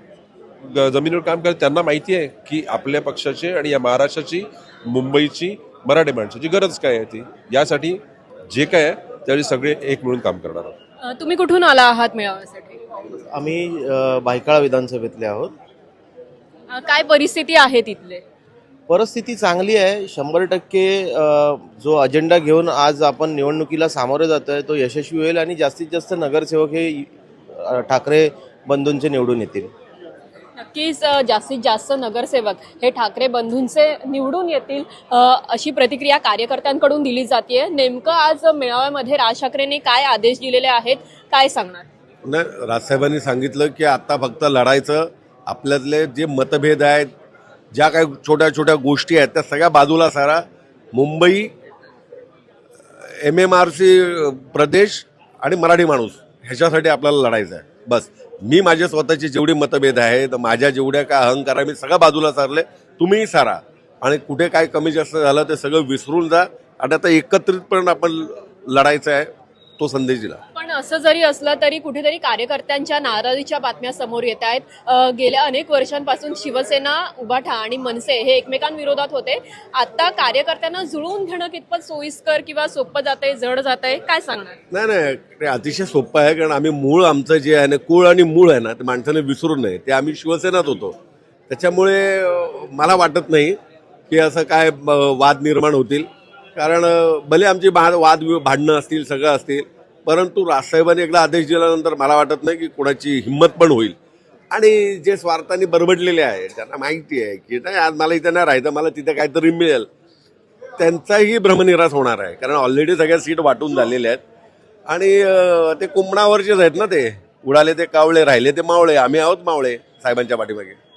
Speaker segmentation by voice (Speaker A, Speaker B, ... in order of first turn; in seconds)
Speaker A: 0.6-10.8
Speaker B: 11.0-12.8, 16.7-18.2, 30.6-41.9, 70.5-84.6
Speaker C: 13.3-15.5, 18.9-29.7
Speaker D: 42.2-47.1, 47.7-51.5, 53.0-70.4, 84.7-91.0, 91.5-93.6, 94.1-104.0, 104.5-109.9, 110.8-114.2, 114.9-120.8